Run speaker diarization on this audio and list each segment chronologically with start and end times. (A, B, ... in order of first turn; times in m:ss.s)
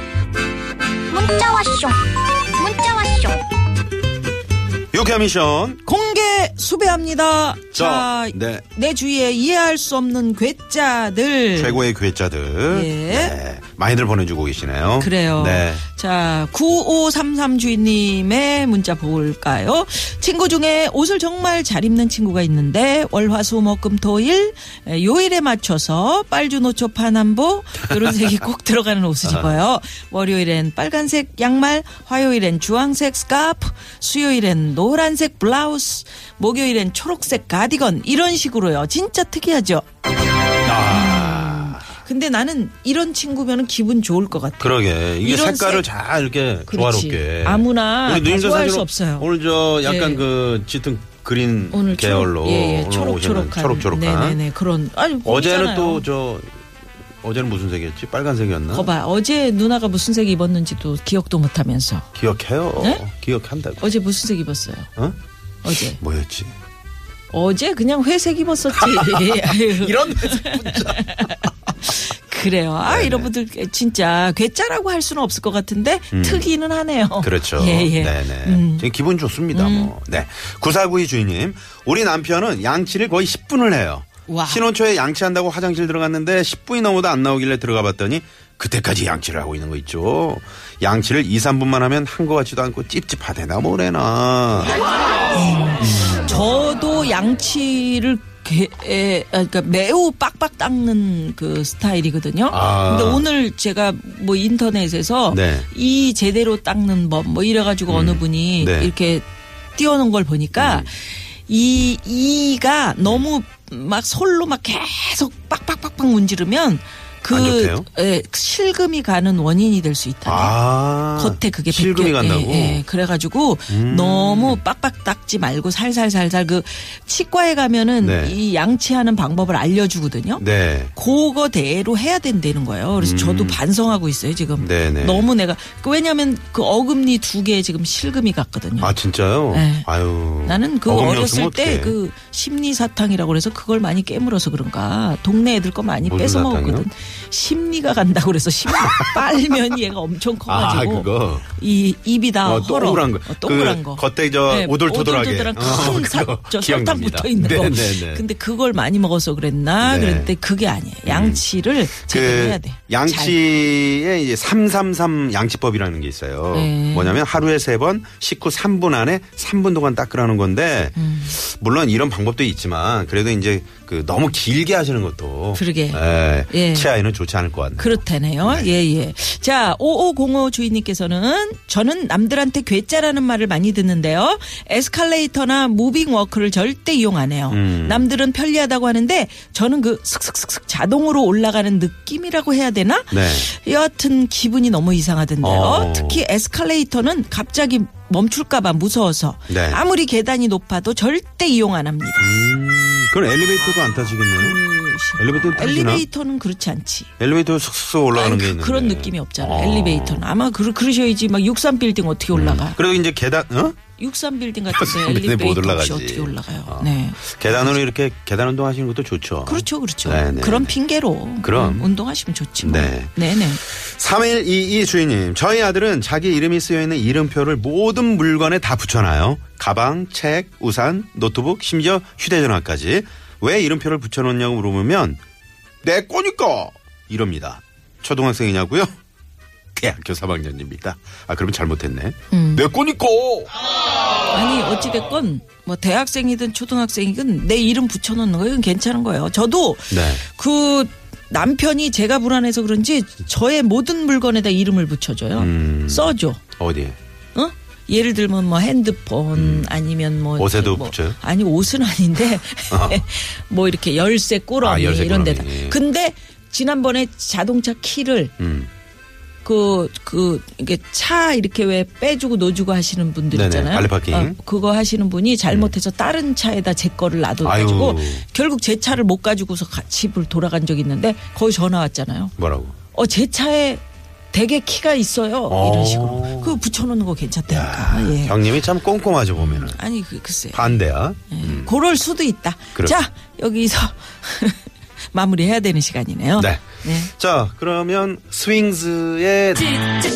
0:01.1-0:03.4 A
0:04.9-0:05.8 B
0:05.8-0:11.8 C
0:07.7-0:08.7 B
0:11.6-0:15.8 B
0:12.7-0:13.4 C
0:15.0-0:39.8 C
0:29.2-0:29.5 B
0:40.6-0:41.9 B
0:40.9-0:45.9 C
0:44.6-0:54.4 B
0:46.7-0:49.3 C
0:49.8-0:50.2 C
0:51.7-0:56.0 C
0:55.2-0:56.5 B
0:57.2-0:58.9 B
0:58.7-1:02.1 C
1:02.1-1:03.8 B
1:03.8-1:04.9 C
1:05.6-1:06.0 C
1:06.0-1:06.5 B
1:07.3-1:18.8 C
1:08.8-1:11.5 B
1:12.8-1:13.3 B
1:16.1-1:16.5 B
1:17.2-1:34.8 B
1:19.5-1:19.9 C
1:24.3-1:24.6 C
1:35.3-2:00.5 C
1:35.9-1:36.2 B
1:42.5-1:43.3 B
1:45.3-1:45.7 B
1:47.9-1:48.9 B
1:50.6-1:50.9 B
1:57.3-1:57.9 B
2:00.3-2:02.8 B
2:01.2-2:10.4 C
2:03.7-2:04.6 B
2:08.0-2:08.4 B
2:10.4-2:10.9 B
2:11.0-2:18.9 C
2:13.0-2:13.6 B
2:14.6-2:15.3 B
2:18.8-2:22.0 B
2:19.5-2:19.9 C
2:20.4-2:43.4 C
2:26.0-2:26.9 B
2:28.7-2:29.2 B
2:30.5-2:31.5 B
2:32.4-2:38.2 B
2:39.8-2:40.3 B
2:41.1-2:41.4 B
2:42.0-2:58.7 B
2:46.5-2:47.2 C
2:51.0-2:51.3 C
2:55.6-2:56.9 C
2:57.8-3:22.4 C
3:07.5-3:08.1 B
3:13.1-3:13.5 B
3:15.4-3:16.2 B
3:19.5-3:19.8 B
3:22.2-3:24.6 B
3:23.6-3:27.1 C
3:25.2-3:26.1 B
3:27.2-3:30.2 B
3:28.1-3:32.8 C
3:32.3-3:33.8 B
3:34.0-3:37.8 C
3:34.7-3:40.7 B
3:39.4-3:43.6 C
3:41.4-3:41.9 B
3:42.6-3:55.2 B
3:55.8-3:58.9 B
3:59.8-4:03.5 B
4:02.3-4:02.7 C
4:04.3-4:16.4 C
4:09.9-4:10.2 B
4:15.4-4:17.0 B
4:17.3-4:28.3 C
4:19.3-4:19.8 B
4:20.4-4:21.2 B
4:22.7-4:23.0 B
4:24.6-4:25.8 B
4:28.4-4:28.7 B
4:29.4-4:42.4 C
4:33.3-4:34.4 B
4:37.4-4:38.2 B
4:42.4-4:42.8 B
4:42.9-4:48.4 C
4:45.5-4:46.6 B
4:47.5-4:49.8 B
4:49.4-4:50.8 C
4:50.5-4:51.8 B
4:51.3-4:57.1 C
4:56.4-4:59.7 B